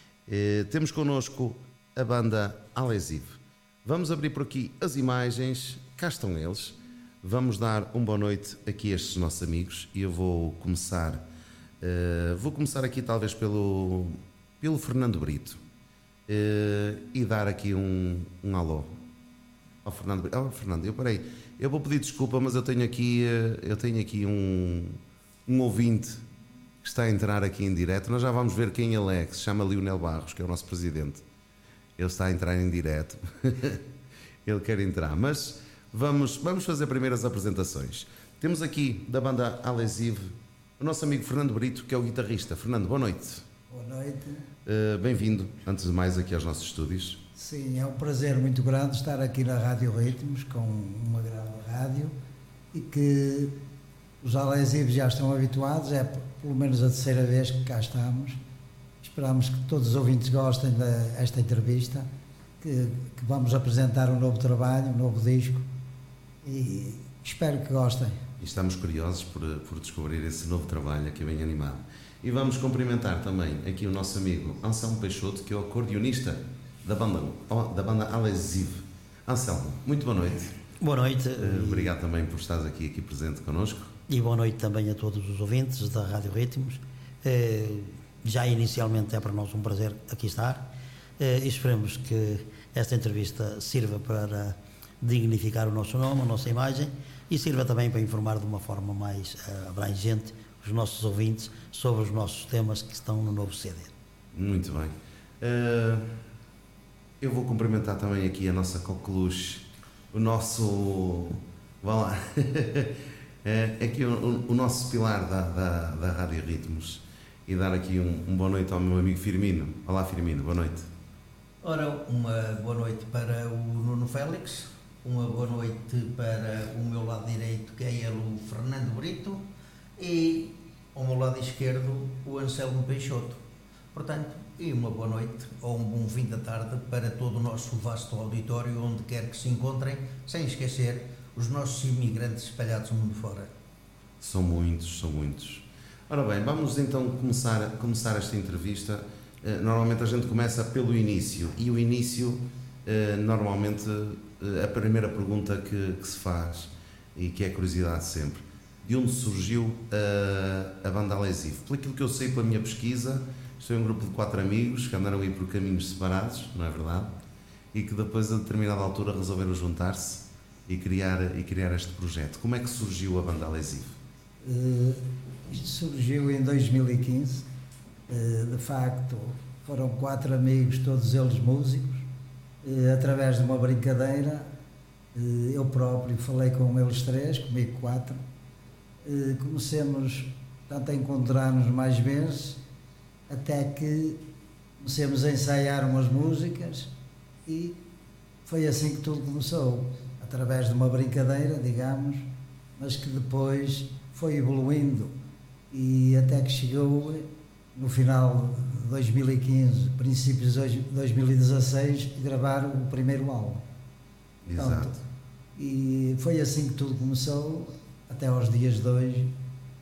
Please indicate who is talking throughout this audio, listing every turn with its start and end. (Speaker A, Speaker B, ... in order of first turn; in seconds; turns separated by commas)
Speaker A: 0.3-11.2, Speaker A: 11.8-15.6, Speaker A: 16.3-19.0, Speaker A: 19.8-26.2, Speaker A: 26.8-31.2, Speaker A: 32.0-33.8, Speaker A: 34.4-43.5, Speaker B: 43.7-44.4, Speaker A: 44.6-47.2, Speaker B: 47.4-52.1, Speaker B: 52.7-53.5, Speaker B: 54.2-58.4, Speaker B: 59.0-62.1, Speaker B: 62.6-65.7, Speaker B: 66.4-68.2, Speaker A: 68.4-80.6, Speaker C: 80.8-81.9, Speaker A: 81.4-83.9, Speaker C: 84.1-103.9, Speaker A: 104.3-106.2, Speaker A: 107.2-120.9, Speaker D: 121.6-133.4, Speaker D: 133.9-143.5, Speaker A: 144.2-167.1, Speaker A: 167.7-174.0, Speaker B: 174.4-177.4, Speaker B: 178.1-182.1, Speaker B: 182.6-184.5, Speaker B: 185.1-188.2, Speaker B: 189.0-192.6, Speaker B: 193.3-194.2, Speaker B: 194.8-196.9, Speaker B: 197.4-197.8, Speaker B: 198.4-205.1, Speaker B: 205.7-213.6, Speaker A: 214.4-215.0, Speaker B: 214.6-214.9, Speaker B: 215.6-219.3